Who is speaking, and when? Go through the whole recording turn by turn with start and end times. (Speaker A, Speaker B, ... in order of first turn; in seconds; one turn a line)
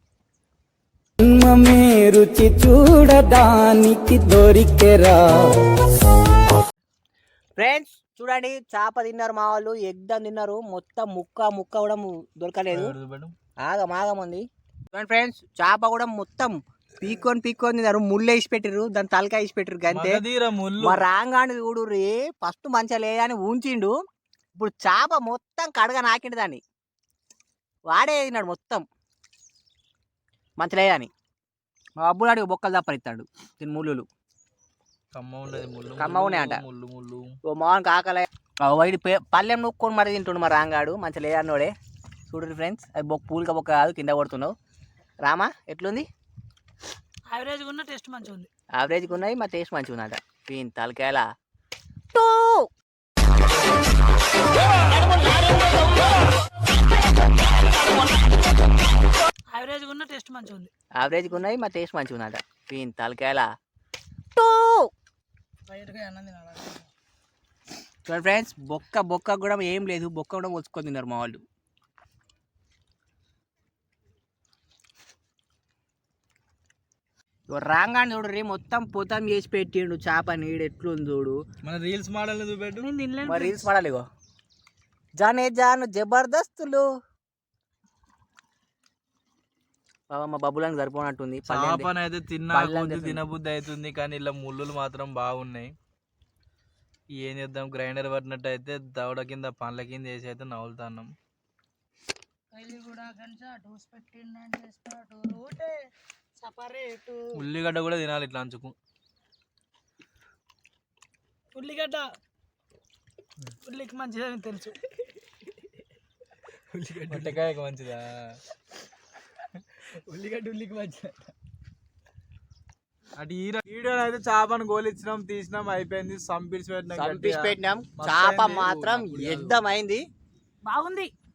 Speaker A: 1.2-5.5
Speaker B: 7.6-12.9
Speaker C: 12.7-13.3
Speaker B: 13.6-20.2
Speaker C: 19.9-21.1
Speaker B: 20.8-23.9
Speaker B: 24.5-26.6
Speaker B: 27.9-28.8
Speaker B: 30.6-31.1
Speaker B: 32.0-34.1
Speaker C: 35.1-37.3
Speaker B: 36.0-36.6
Speaker B: 37.5-41.7
Speaker B: 42.3-44.5
Speaker B: 45.2-46.1
Speaker D: 47.3-48.5
Speaker B: 48.8-51.3
Speaker B: 52.1-52.7
Speaker D: 59.5-60.7
Speaker B: 61.0-63.5
Speaker B: 64.3-64.9
Speaker D: 65.7-66.8
Speaker B: 68.0-71.4
Speaker B: 77.5-81.4
Speaker C: 81.6-82.9
Speaker D: 82.8-83.7
Speaker B: 83.2-84.0
Speaker B: 85.2-86.8
Speaker B: 90.1-91.9
Speaker C: 91.5-95.7
Speaker B: 92.5-93.2
Speaker C: 97.1-101.1
Speaker D: 102.5-105.8
Speaker D: 106.4-107.2
Speaker C: 107.3-108.7
Speaker D: 111.5-112.1
Speaker D: 113.6-114.8
Speaker B: 116.8-117.2
Speaker C: 117.1-118.1
Speaker C: 123.2-129.4
Speaker B: 126.9-130.0
Speaker D: 130.6-131.1